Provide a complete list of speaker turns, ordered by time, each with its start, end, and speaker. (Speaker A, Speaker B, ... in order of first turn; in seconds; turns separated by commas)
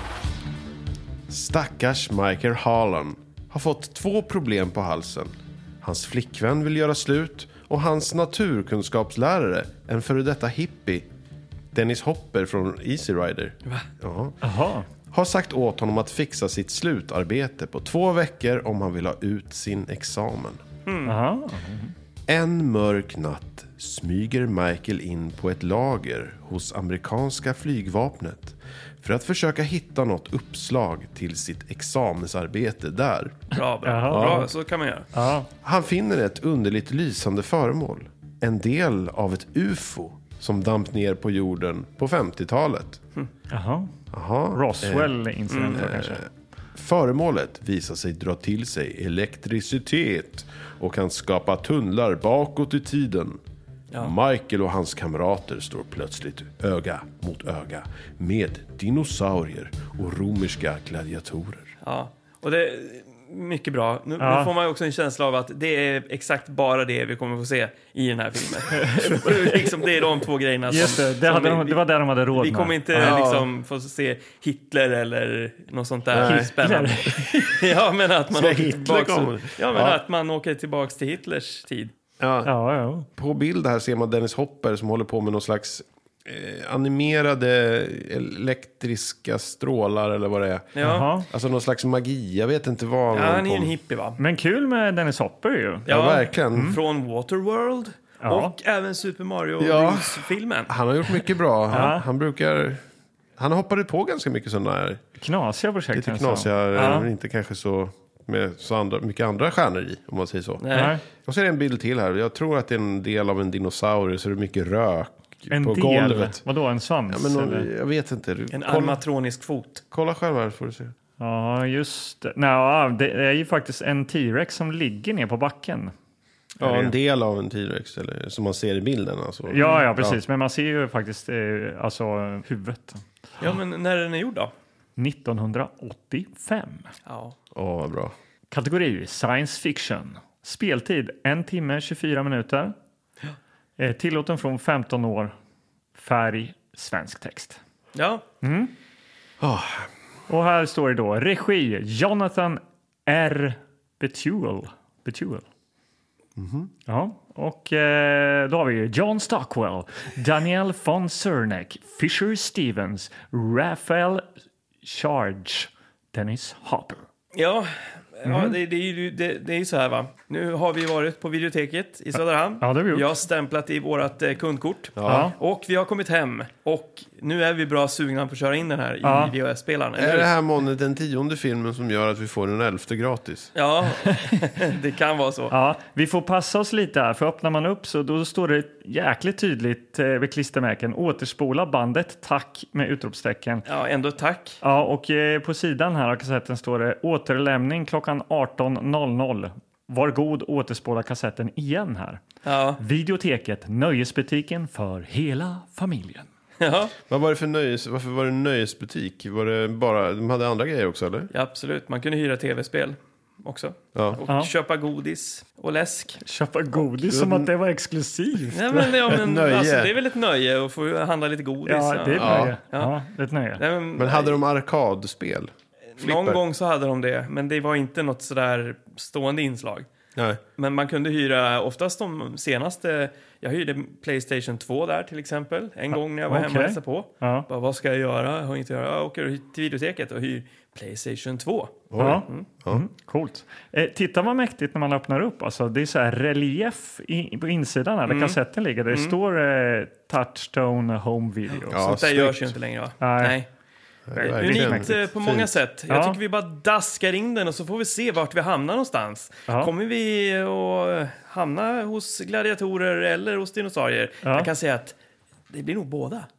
Speaker A: 1.3-11.1, Speaker A: 11.7-14.4, Speaker B: 14.4-14.9, Speaker A: 15.1-20.6, Speaker C: 20.9-21.1, Speaker B: 21.1-21.9, Speaker A: 22.3-33.4, Speaker C: 33.5-35.1, Speaker B: 33.8-34.5, Speaker A: 34.1-34.5, Speaker B: 35.1-35.5, Speaker A: 35.6-43.0, Speaker B: 43.5-43.9, Speaker A: 44.1-45.1, Speaker B: 44.5-46.2, Speaker C: 45.5-45.8, Speaker A: 45.7-53.4, Speaker A: 54.0-61.7, Speaker C: 61.8-81.9, Speaker B: 64.2-64.5, Speaker B: 68.8-69.6, Speaker B: 70.7-73.2, Speaker A: 72.9-73.5, Speaker A: 76.1-76.5, Speaker B: 76.2-77.6, Speaker A: 78.3-80.0, Speaker A: 82.2-82.5, Speaker B: 82.5-83.1, Speaker A: 83.1-93.7, Speaker C: 90.7-91.1, Speaker B: 90.8-91.3, Speaker C: 93.1-94.2, Speaker B: 94.2-95.9, Speaker A: 95.8-96.8, Speaker C: 95.9-100.7, Speaker B: 98.2-98.5, Speaker A: 99.6-102.8, Speaker B: 101.7-102.0, Speaker A: 103.4-105.0, Speaker B: 105.2-107.1, Speaker A: 105.9-110.6, Speaker C: 110.6-111.0, Speaker B: 110.7-111.0, Speaker A: 111.2-116.4, Speaker B: 115.5-117.7, Speaker A: 117.1-119.0, Speaker C: 118.5-119.8, Speaker A: 119.9-120.9, Speaker B: 121.2-125.9, Speaker B: 126.6-126.9, Speaker A: 126.6-130.2, Speaker B: 129.5-133.0, Speaker C: 129.6-129.8, Speaker C: 133.4-134.5, Speaker B: 135.0-136.9, Speaker C: 137.1-137.3, Speaker A: 137.5-138.1, Speaker B: 138.5-142.7, Speaker B: 143.8-145.3, Speaker B: 145.9-147.6, Speaker C: 147.9-148.2, Speaker B: 148.4-148.7, Speaker A: 149.4-149.9, Speaker B: 150.3-155.4, Speaker A: 156.4-156.7, Speaker B: 156.9-164.2, Speaker B: 164.8-167.0, Speaker C: 167.3-180.3, Speaker B: 168.2-168.6, Speaker B: 172.6-173.1, Speaker A: 175.0-175.3, Speaker B: 175.1-175.3, Speaker B: 179.0-179.3, Speaker A: 179.9-183.5, Speaker C: 183.5-185.5, Speaker B: 185.5-193.6, Speaker C: 193.7-194.6, Speaker B: 194.6-202.2, Speaker C: 202.4-202.8, Speaker B: 202.8-206.3, Speaker C: 206.6-206.9, Speaker A: 207.1-211.3, Speaker C: 211.3-216.2, Speaker A: 213.9-214.2, Speaker B: 216.2-218.9, Speaker A: 217.1-217.5, Speaker C: 218.5-222.9, Speaker A: 219.0-219.9, Speaker B: 221.7-223.6, Speaker A: 222.1-222.6, Speaker C: 223.6-224.4, Speaker A: 223.9-226.4, Speaker C: 226.0-229.9, Speaker A: 230.1-230.4, Speaker C: 230.6-242.4, Speaker B: 235.9-237.4, Speaker A: 241.9-242.8, Speaker B: 242.0-251.8, Speaker C: 248.1-248.4, Speaker C: 248.9-249.2, Speaker A: 251.7-252.5, Speaker C: 251.8-253.5, Speaker B: 253.0-253.3, Speaker A: 254.1-255.6, Speaker B: 254.2-255.0, Speaker C: 254.2-264.9, Speaker B: 255.9-256.2, Speaker B: 264.2-264.5, Speaker C: 265.5-266.3